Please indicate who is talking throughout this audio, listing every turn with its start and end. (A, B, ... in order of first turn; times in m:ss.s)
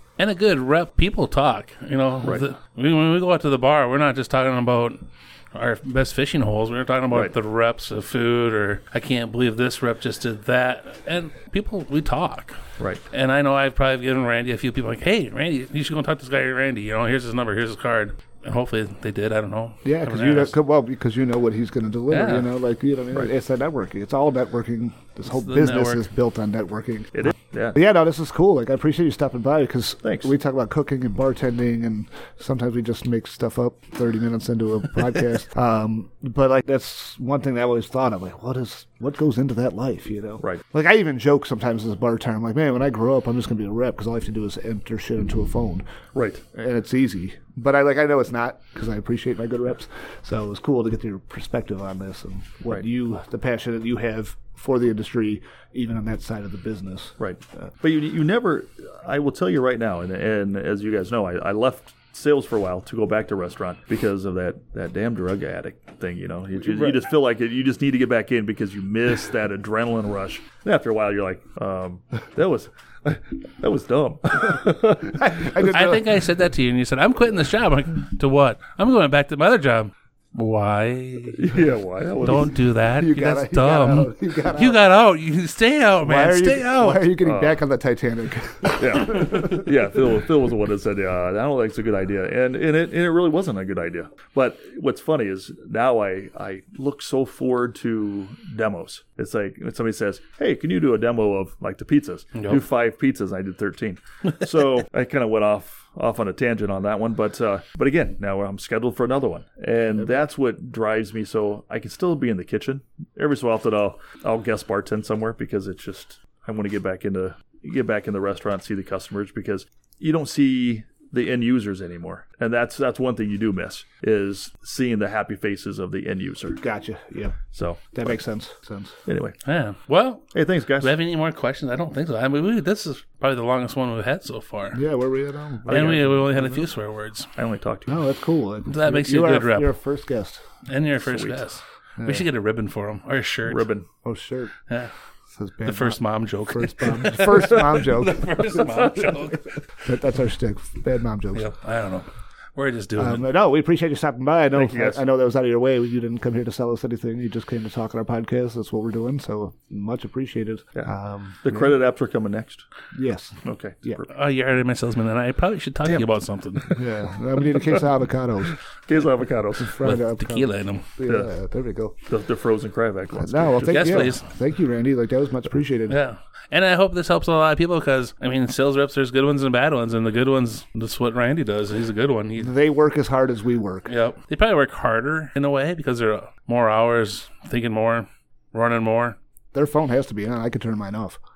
0:00.2-0:12.6 A
0:13.1-0:20.5 A
0:19.8-0:45.8 B
0:22.1-0:22.5 A
0:25.2-0:26.0 A
0:27.1-0:27.8 C
0:30.0-0:30.3 C
0:46.1-0:46.4 C
0:46.5-0:57.2 B
0:57.2-1:15.4 C
1:06.6-1:07.0 B
1:14.4-1:16.2 B
1:15.6-1:21.6 A
1:21.3-1:22.5 C
1:22.2-1:27.1 A
1:22.9-1:24.8 B
1:26.0-1:29.6 B
1:27.2-1:27.6 C
1:28.7-2:06.6 C
1:42.3-1:42.6 A
2:06.6-2:07.4 B
2:07.5-2:08.0 C
2:07.9-2:09.0 B
2:09.1-2:09.4 C
2:09.4-2:14.8 A
2:10.3-2:11.0 C
2:14.7-2:15.9 B
2:15.7-2:16.5 C
2:15.7-2:17.3 A
2:17.4-2:18.0 C
2:17.9-2:20.4 B
2:18.7-2:19.7 A
2:20.6-2:23.7 A
2:21.0-2:21.4 C
2:22.0-2:22.2 B
2:23.5-2:23.9 C
2:24.0-2:24.5 B
2:25.3-2:26.0 B
2:25.6-2:29.6 A
2:26.5-2:28.8 B
2:29.8-2:31.5 B
2:31.3-2:33.2 A
2:33.0-2:41.7 B
2:34.5-2:35.0 C
2:41.4-2:42.6 C
2:42.9-2:44.0 B
2:43.4-2:44.1 C
2:44.1-2:46.8 A
2:46.7-2:48.6 B
2:48.5-2:49.9 C
2:49.6-2:52.0 B
2:49.8-2:50.8 A
2:51.0-2:51.3 C
2:52.0-2:54.1 C
2:53.1-2:56.0 B
2:53.7-2:54.2 A
2:55.9-3:02.5 A
3:02.4-3:03.9 B
3:03.9-3:09.2 A
3:09.5-3:11.2 B